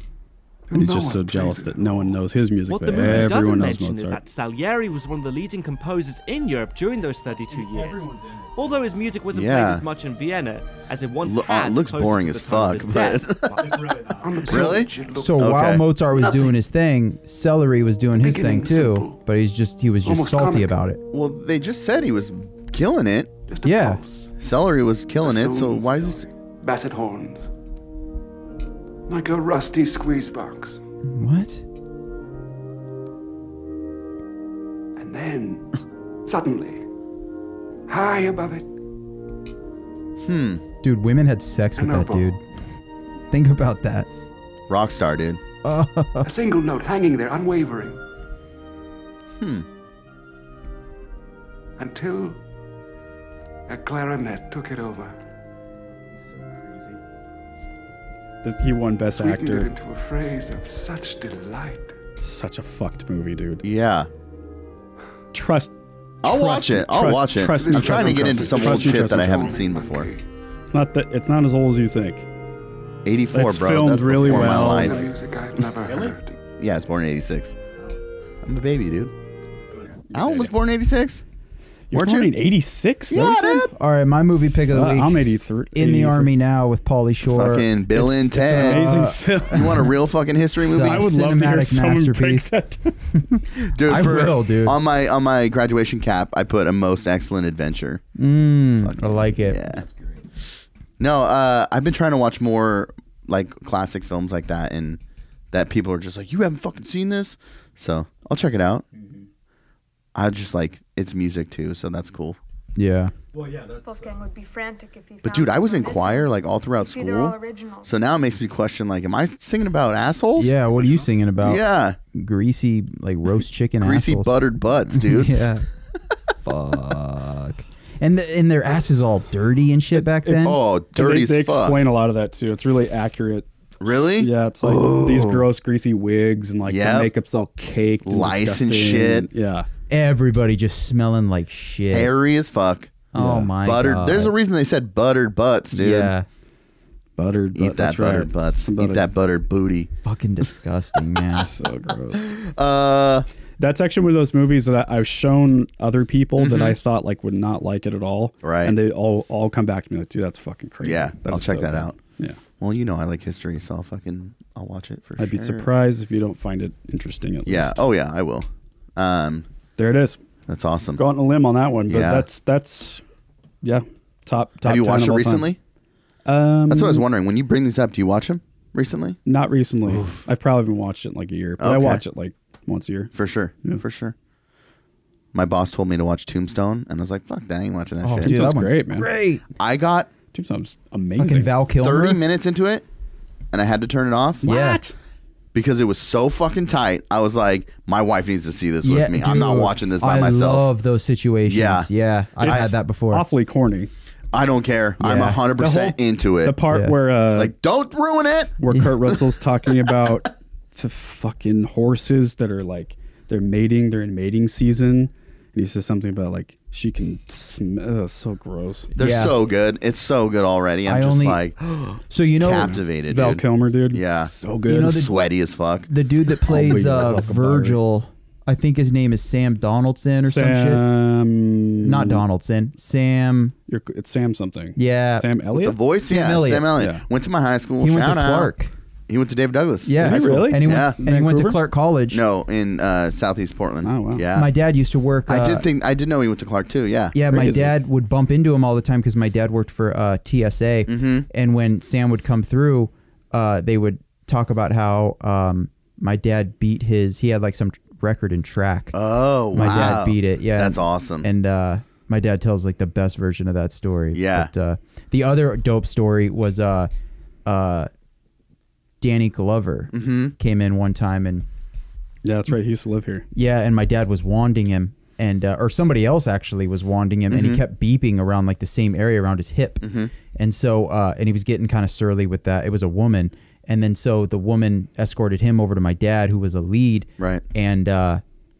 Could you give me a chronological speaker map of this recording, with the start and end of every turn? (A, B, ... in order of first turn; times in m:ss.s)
0:00.7-0:02.2 A
0:00.7-0:04.2 B
0:02.7-0:13.4 C
0:03.0-0:03.3 D
0:07.5-0:08.8 B
0:09.3-0:09.8 D
0:11.2-0:13.8 D
0:13.5-0:14.7 B
0:14.1-0:15.5 A
0:14.5-0:15.8 D
0:15.1-0:21.0 E
0:18.2-0:19.2 A
0:20.0-0:20.7 A
0:21.1-0:23.3 D
0:23.5-0:24.3 A
0:23.6-0:24.0 E
0:24.4-0:26.2 D
0:25.2-0:27.5 A
0:29.1-0:30.8 A
0:31.0-0:31.6 E
0:35.0-0:35.7 A
0:36.2-0:36.8 A
0:37.9-0:38.7 A
0:40.2-0:40.6 D
0:40.8-0:42.4 E
0:41.8-0:42.3 A
0:43.3-0:44.1 E
0:44.7-0:45.4 D
0:45.6-0:46.3 E
0:46.2-0:48.0 A
0:49.4-0:49.6 D
0:51.8-0:52.4 A
0:53.7-0:55.1 A
0:56.2-0:57.0 B
0:58.4-0:59.7 B
0:59.1-1:01.9 A
1:02.2-1:03.6 B
1:03.6-1:04.1 D
1:05.3-1:09.5 B
1:06.2-1:10.1 D
1:07.5-1:10.2 A
1:10.7-1:12.2 B
1:13.0-1:15.0 D
1:13.3-1:15.1 B
1:14.2-1:16.4 A
1:15.8-1:16.2 B
1:16.6-1:17.6 D
1:18.4-1:19.1 D
1:19.9-1:20.5 B
1:20.1-1:21.2 D
1:21.9-1:23.6 B
1:21.9-1:22.3 D
1:23.1-1:23.7 D
1:23.2-1:29.9 E
1:24.7-1:26.3 B
1:27.3-1:28.9 D
1:28.0-1:29.8 B
1:29.5-1:31.1 D
1:30.7-1:32.5 E
1:30.7-1:33.0 B
1:33.1-1:34.8 E
1:33.6-1:38.0 D
1:38.2-1:39.6 E
1:38.8-1:39.8 D
1:39.7-1:40.2 B
1:41.0-1:45.0 D
1:45.5-1:48.8 D
1:48.9-1:49.2 B
1:50.1-1:52.4 D
1:52.8-1:53.1 E
1:53.3-1:54.1 B
1:53.8-1:57.9 F
1:55.2-2:00.5 D
2:00.4-2:05.6 E
2:01.4-2:02.0 D
2:03.8-2:05.4 D
2:06.4-2:10.6 E
2:10.0-2:13.4 B
2:10.4-2:11.8 D
2:13.8-2:15.5 D
2:14.2-2:19.7 B
2:16.7-2:17.1 D
2:18.0-2:19.3 D
2:19.9-2:22.1 E
2:21.9-2:23.1 D
2:23.1-2:24.3 E
2:23.2-2:23.5 B
2:23.6-2:26.1 D
2:25.7-2:26.3 E
2:27.2-2:29.1 B
2:27.5-2:29.9 D
2:30.0-2:31.5 E
2:31.4-2:32.3 B
2:32.2-2:33.3 D
2:33.6-2:42.4 B
2:36.4-2:36.8 D
2:38.4-2:38.8 D
2:40.8-2:42.0 D
2:42.6-2:45.7 D
2:45.2-2:47.8 B
2:47.4-2:49.5 D
2:49.8-2:50.2 B
2:50.5-2:51.0 D
2:51.0-2:53.0 B
2:51.9-2:52.2 D
2:53.6-2:55.5 B
2:54.6-2:55.6 D
2:56.2-2:57.0 B
2:56.7-2:59.2 D
2:59.2-3:03.1 B
2:59.9-3:00.2 D
3:01.6-3:02.0 D
3:03.1-3:04.1 D
3:05.3-3:08.4 D
3:08.0-3:09.4 E
3:08.2-3:09.1 B
3:09.6-3:10.1 D
3:10.3-3:11.5 B
3:11.2-3:12.2 E
3:11.8-3:12.8 D
3:13.5-3:14.4 D
3:14.4-3:14.9 B
3:14.4-3:14.8 E
3:15.5-3:20.7 D
3:18.8-3:23.3 E
3:21.5-3:21.9 D
3:22.4-3:23.9 B
3:24.3-3:26.6 D
3:25.0-3:25.4 E
3:25.6-3:27.5 B
3:26.7-3:27.0 E
3:27.3-3:29.2 D
3:28.6-3:38.9 B
3:39.0-3:45.9 D
3:39.0-3:39.4 E
3:40.8-3:41.4 E
3:42.1-3:42.8 E
3:43.1-3:45.0 B
3:44.7-3:45.1 E
3:45.9-3:50.8 E
3:46.5-3:47.8 B
3:50.2-3:52.2 B
3:51.8-3:53.5 E
3:53.7-3:55.8 B
3:54.8-3:55.3 E
3:55.5-3:58.5 D
3:56.0-3:56.8 E
3:56.8-3:57.0 B
3:57.8-3:58.7 E
3:59.1-4:01.0 D
3:59.8-4:02.2 E
4:00.0-4:01.6 B
4:02.1-4:04.5 D
4:03.8-4:04.2 B
4:04.3-4:05.6 E
4:05.3-4:07.2 D
4:07.1-4:18.9 E
4:07.3-4:07.7 B
4:10.9-4:11.3 D
4:18.9-4:21.3 D
4:19.5-4:26.9 E
4:24.1-4:24.5 D
4:27.4-4:27.9 E
4:29.0-4:31.4 E
4:29.9-4:30.3 D
4:32.2-4:33.3 B
4:33.3-4:48.2 E
4:37.3-4:37.6 D
4:39.8-4:40.1 D